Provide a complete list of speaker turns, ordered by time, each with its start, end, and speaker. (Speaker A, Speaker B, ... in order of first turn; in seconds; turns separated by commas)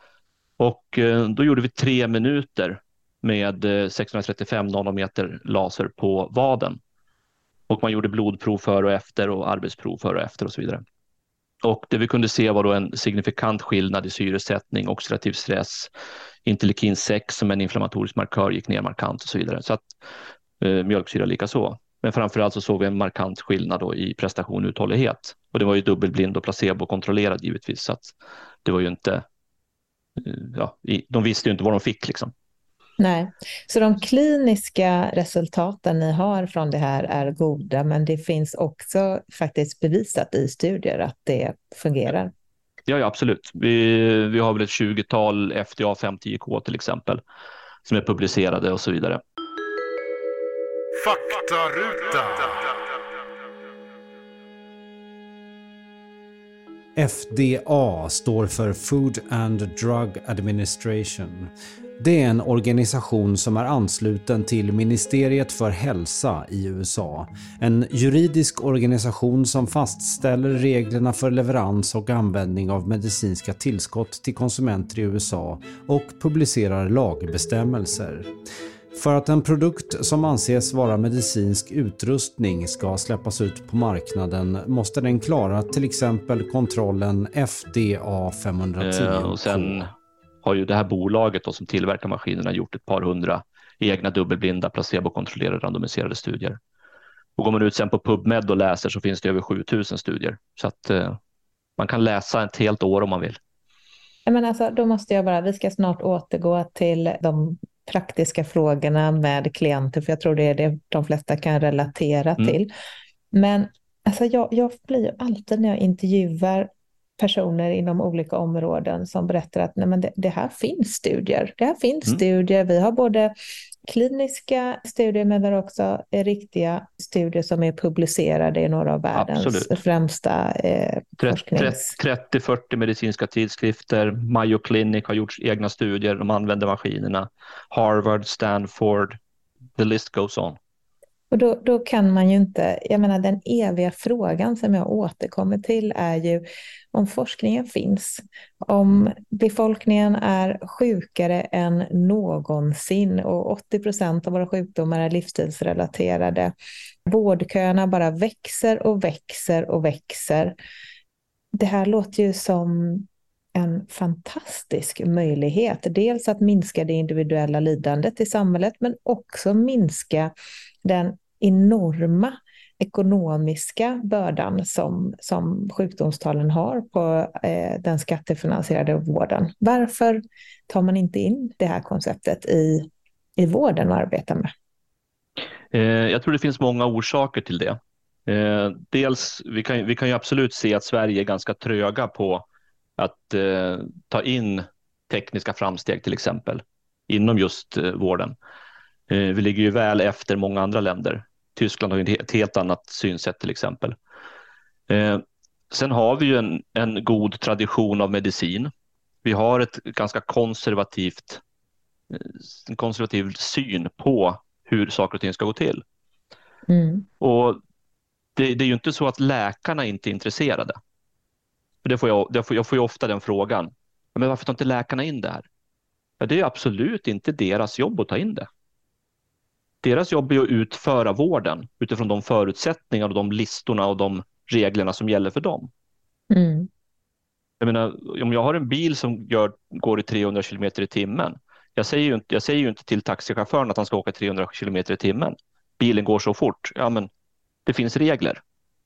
Speaker A: 0.6-6.8, Speaker A: 7.7-10.8, Speaker A: 11.6-15.9, Speaker A: 16.4-19.9, Speaker A: 20.6-28.1, Speaker A: 28.6-29.2, Speaker A: 30.2-32.3, Speaker B: 33.0-42.3, Speaker A: 42.9-47.2, Speaker A: 47.8-49.2, Speaker A: 51.9-52.2, Speaker C: 57.0-78.3, Speaker C: 78.9-89.8, Speaker A: 88.8-89.9, Speaker A: 90.4-96.6, Speaker A: 97.4-101.2, Speaker A: 101.8-103.4, Speaker B: 104.2-112.7, Speaker B: 113.3-123.3, Speaker B: 123.9-131.9, Speaker A: 129.1-129.8, Speaker A: 131.2-139.2, Speaker A: 139.8-140.6, Speaker B: 141.3-156.5, Speaker B: 157.1-160.6, Speaker B: 161.5-170.3, Speaker B: 170.8-184.5, Speaker A: 185.7-192.4, Speaker A: 193.0-198.3, Speaker A: 199.1-203.9, Speaker A: 204.9-208.7, Speaker A: 209.2-211.4, Speaker A: 212.1-215.8, Speaker B: 216.7-217.1, Speaker A: 217.2-217.6, Speaker A: 218.3-220.8, Speaker A: 221.8-225.4, Speaker A: 226.2-228.5, Speaker A: 229.8-235.7, Speaker B: 236.3-236.7, Speaker A: 237.6-247.1, Speaker A: 247.7-248.4